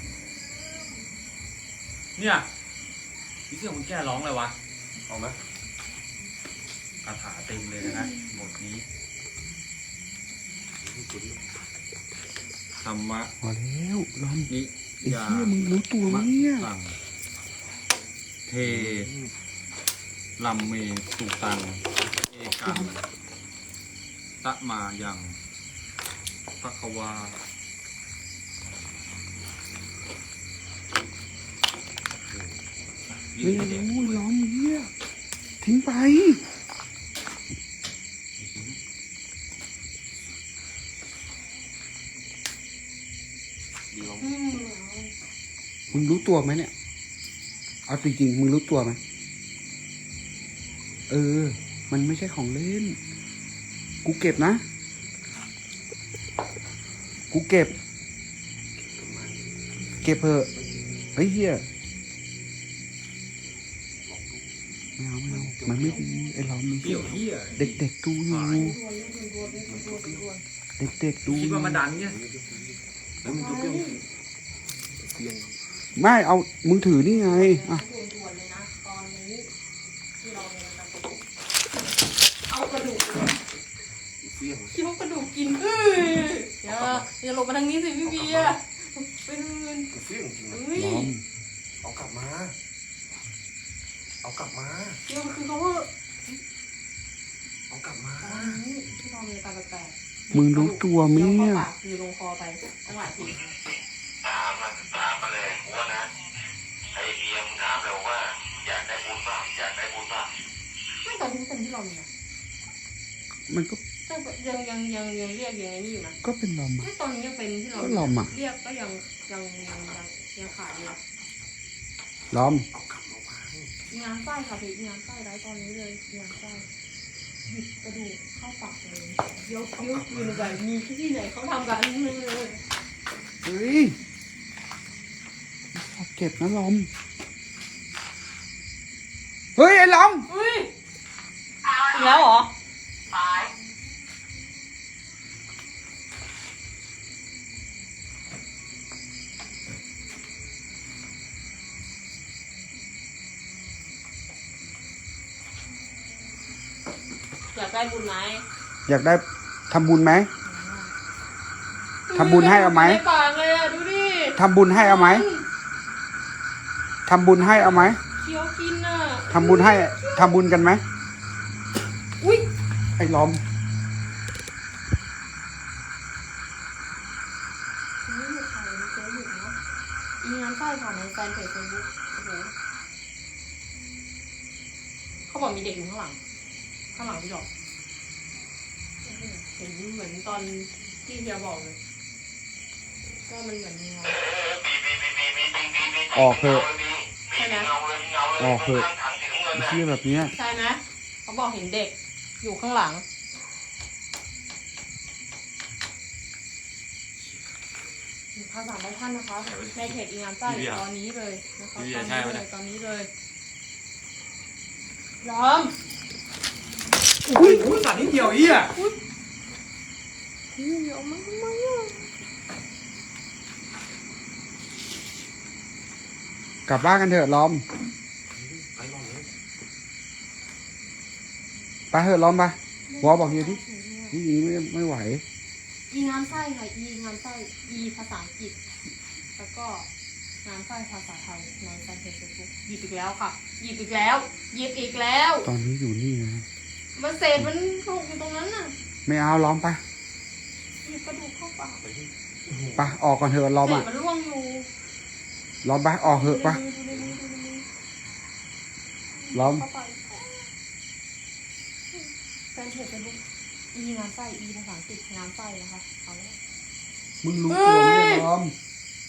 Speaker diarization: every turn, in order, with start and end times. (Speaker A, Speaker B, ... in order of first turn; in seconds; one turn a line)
Speaker A: 2.1-2.4
Speaker A: 3.5-4.5
Speaker B: 5.1-5.4
Speaker A: 7.0-8.8
Speaker B: 10.8-11.6
Speaker A: 12.8-13.3
Speaker C: 13.4-14.5
Speaker A: 14.5-15.5
Speaker C: 15.0-16.7
Speaker A: 16.1-17.0
Speaker A: 18.5-19.1
Speaker B: 18.6-19.3
Speaker A: 20.4-23.0
Speaker C: 22.4-22.9
Speaker A: 24.4-25.4
Speaker A: 26.6-27.4
Speaker A: 33.2-34.2
Speaker C: 33.4-34.9
Speaker C: 35.6-36.4
Speaker A: 38.4-38.8
Speaker B: 43.9-44.4
Speaker D: 44.2-45.1
Speaker B: 45.9-46.3
Speaker C: 45.9-46.7
Speaker C: 47.9-49.0
Speaker C: 51.1-53.0
Speaker C: 54.0-54.6
Speaker C: 57.3-57.7
Speaker B: 58.8-59.6
Speaker C: 60.0-60.5
Speaker B: 60.5-61.1
Speaker C: 61.1-61.6
Speaker B: 64.0-64.7
Speaker C: 65.0-68.8
Speaker B: 65.3-66.0
Speaker A: 66.8-67.6
Speaker B: 67.1-67.8
Speaker A: 68.3-68.6
Speaker D: 68.5-70.4
Speaker B: 69.6-70.2
Speaker C: 70.8-71.8
Speaker A: 71.2-72.2
Speaker B: 72.0-74.0
Speaker D: 73.3-74.0
Speaker B: 74.8-75.6
Speaker C: 76.0-77.8
Speaker D: 77.0-79.5
Speaker D: 80.2-81.2
Speaker D: 82.5-83.4
Speaker B: 84.2-84.8
Speaker D: 84.7-89.9
Speaker B: 86.6-87.1
Speaker B: 88.0-88.6
Speaker B: 89.9-90.8
Speaker D: 90.5-91.1
Speaker C: 90.7-91.2
Speaker B: 91.8-92.5
Speaker B: 94.2-95.0
Speaker D: 95.1-96.4
Speaker B: 97.7-98.6
Speaker D: 98.2-103.4
Speaker C: 100.3-101.7
Speaker E: 104.2-106.1
Speaker E: 106.9-110.3
Speaker D: 111.0-112.1
Speaker C: 113.5-113.8
Speaker D: 114.1-116.2
Speaker C: 116.2-116.9
Speaker D: 116.8-121.0
Speaker C: 117.8-118.3
Speaker C: 122.3-122.7
Speaker B: 122.7-123.7
Speaker D: 123.9-126.7
Speaker D: 127.5-132.6
Speaker C: 133.4-133.9
Speaker C: 135.7-136.9
Speaker C: 139.6-140.3
Speaker D: 140.3-140.7
Speaker D: 141.7-142.5
Speaker D: 157.5-158.4
Speaker C: 158.9-160.3
Speaker D: 160.4-160.9
Speaker D: 162.1-165.4
Speaker C: 162.1-163.0
Speaker C: 164.3-165.2
Speaker C: 167.1-168.0
Speaker D: 168.1-170.3
Speaker C: 169.3-170.8
Speaker D: 172.2-172.5
Speaker C: 173.0-173.4
Speaker D: 178.0-179.6
Speaker D: 180.2-182.5
Speaker D: 185.3-186.2
Speaker D: 186.9-187.5
Speaker D: 189.0-191.8
Speaker D: 193.3-194.2
Speaker E: 194.0-199.8
Speaker C: 196.1-196.7
Speaker D: 197.3-197.7
Speaker C: 198.4-198.9
Speaker C: 199.5-200.3
Speaker D: 200.3-203.0
Speaker D: 208.3-213.1
Speaker A: 209.4-210.8
Speaker A: 211.8-212.4
Speaker D: 215.2-215.7
Speaker A: 217.2-218.7
Speaker D: 217.3-219.0
Speaker D: 220.6-222.0
Speaker C: 226.7-227.6
Speaker B: 228.3-229.3
Speaker C: 231.9-233.6
Speaker D: 232.9-234.2
Speaker C: 234.1-235.2
Speaker D: 235.9-238.6
Speaker D: 239.4-239.9
Speaker D: 240.4-245.5
Speaker C: 245.4-246.4
Speaker D: 246.9-248.7
Speaker C: 249.1-249.8
Speaker D: 250.8-251.8
Speaker B: 251.8-252.1
Speaker C: 252.8-253.9
Speaker D: 253.6-254.7
Speaker C: 255.6-256.6
Speaker D: 256.0-257.6
Speaker D: 259.2-260.4
Speaker C: 259.3-259.6
Speaker D: 261.9-263.2
Speaker D: 263.7-266.4
Speaker C: 267.2-268.5
Speaker D: 267.5-268.2